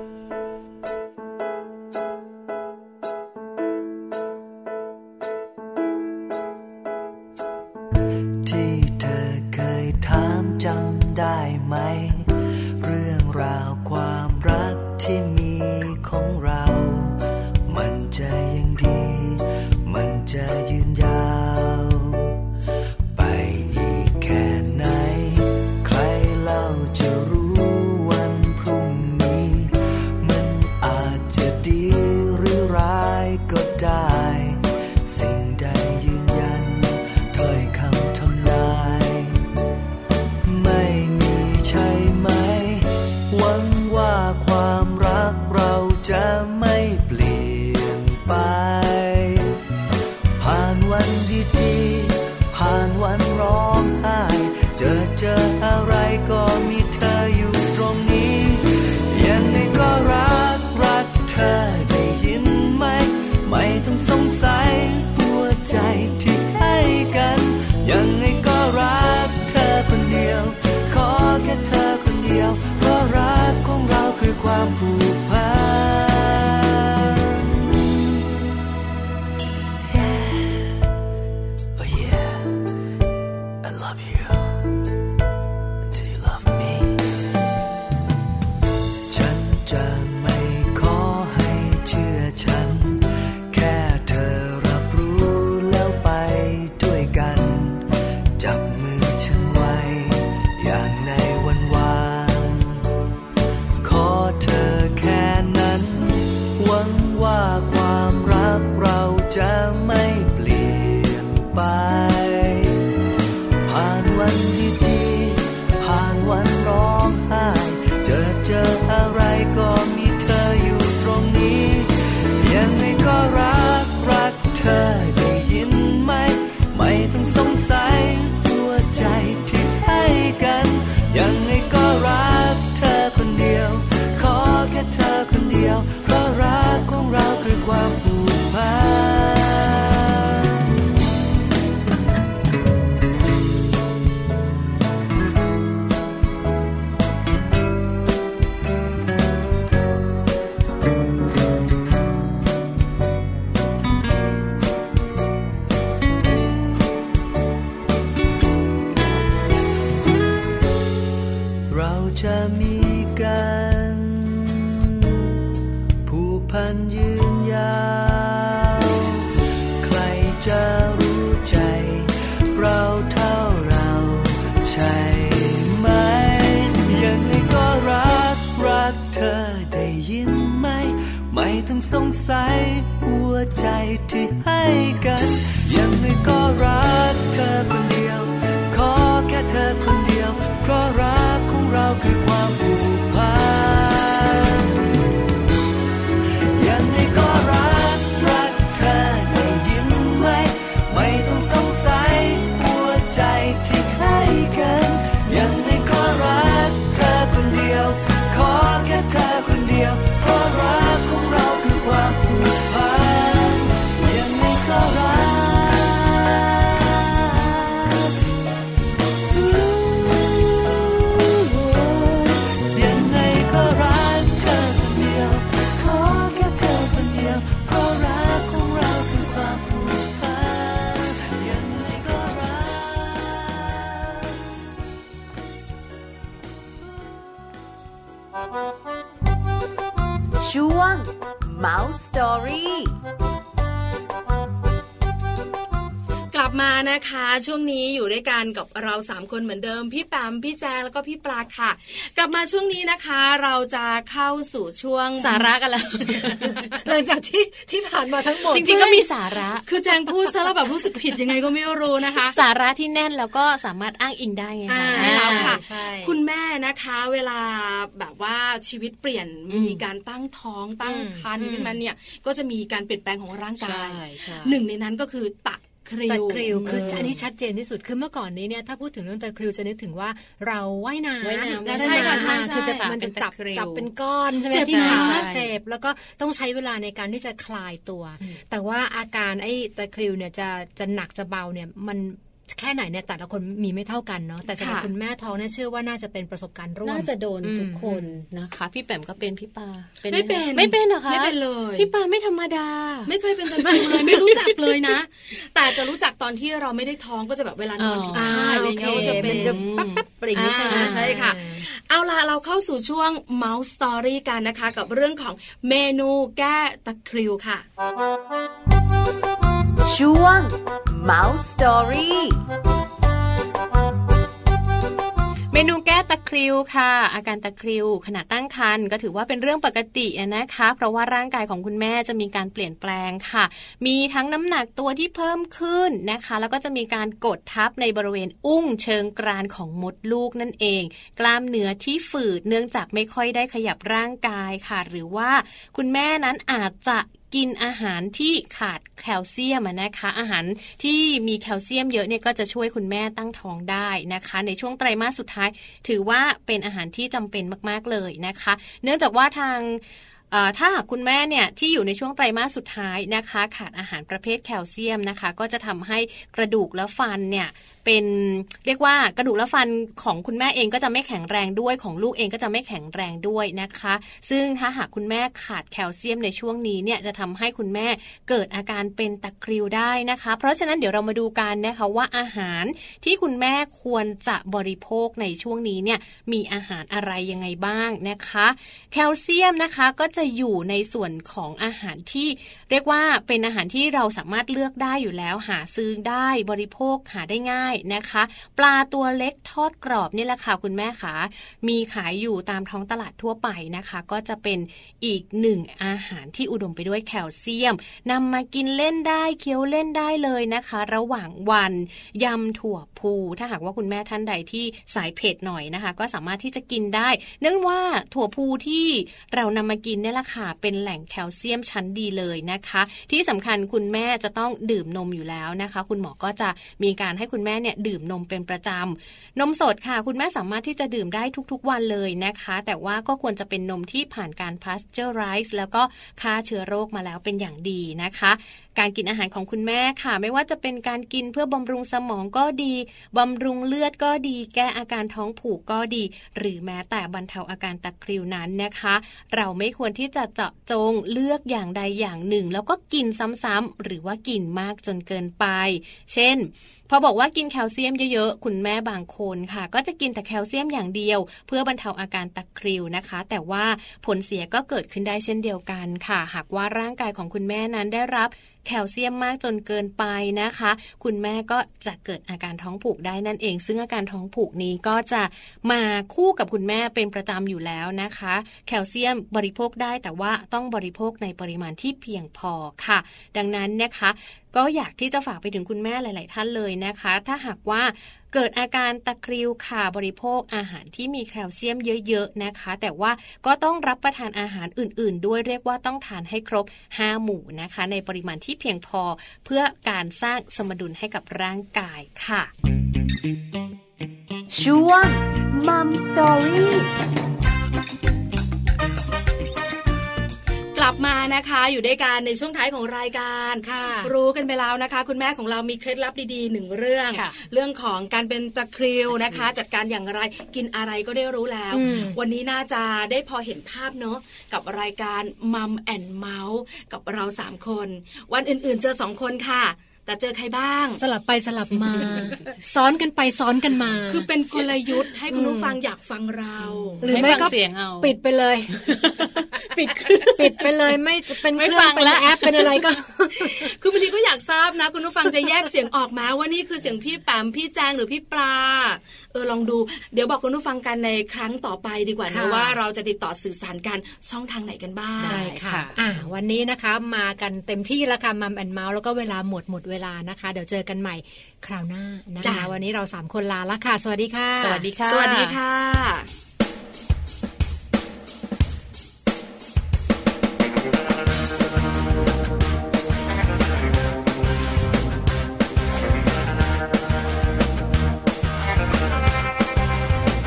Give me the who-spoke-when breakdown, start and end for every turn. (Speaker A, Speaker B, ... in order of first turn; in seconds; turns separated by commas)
Speaker A: 8.4-22.4, Speaker A: 23.1-39.4, Speaker A: 40.4-49.6, Speaker A: 50.4-78.3, Speaker A: 79.8-80.8, Speaker A: 81.8-82.7, Speaker A: 83.6-84.8, Speaker A: 85.9-87.2, Speaker A: 89.1-102.9, Speaker A: 103.8-112.9, Speaker A: 113.6-140.4, Speaker A: 161.7-165.3, Speaker A: 166.0-169.3, Speaker A: 169.8-194.9, Speaker A: 196.5-218.1, Speaker A: 219.3-234.4, Speaker B: 240.3-243.0, Speaker C: 246.3-255.5, Speaker D: 255.2-256.8, Speaker E: 256.8-259.1, Speaker D: 258.5-259.7, Speaker C: 259.6-262.4, Speaker D: 262.2-265.6, Speaker E: 264.7-266.1, Speaker C: 264.8-277.1, Speaker D: 269.5-269.8, Speaker E: 270.8-271.8, Speaker D: 273.6-274.6, Speaker E: 276.1-298.1, Speaker D: 276.5-277.2, Speaker D: 281.2-283.9, Speaker C: 281.7-282.6, Speaker C: 284.5-285.3, Speaker D: 284.5-285.5, Speaker C: 294.6-294.9, Speaker D: 296.8-304.9, Speaker C: 300.1-301.9, Speaker C: 303.1-309.6, Speaker D: 307.8-310.0, Speaker E: 308.1-311.6, Speaker C: 310.3-317.6, Speaker D: 310.7-311.3, Speaker B: 319.8-322.4, Speaker D: 325.5-502.5, Speaker B: 504.5-506.9, Speaker C: 510.7-531.0, Speaker E: 513.6-514.1, Speaker E: 521.7-522.2, Speaker E: 531.0-534.3, Speaker C: 534.1-537.5, Speaker E: 535.3-535.8, Speaker D: 536.7-538.1, Speaker E: 537.0-538.8, Speaker D: 538.7-540.7, Speaker E: 540.3-543.7, Speaker D: 541.5-542.8, Speaker C: 543.5-555.5, Speaker E: 552.3-552.8, Speaker E: 555.2-564.9, Speaker D: 555.2-556.3, Speaker C: 562.4-562.7, Speaker D: 564.6-565.6, Speaker C: 565.0-566.3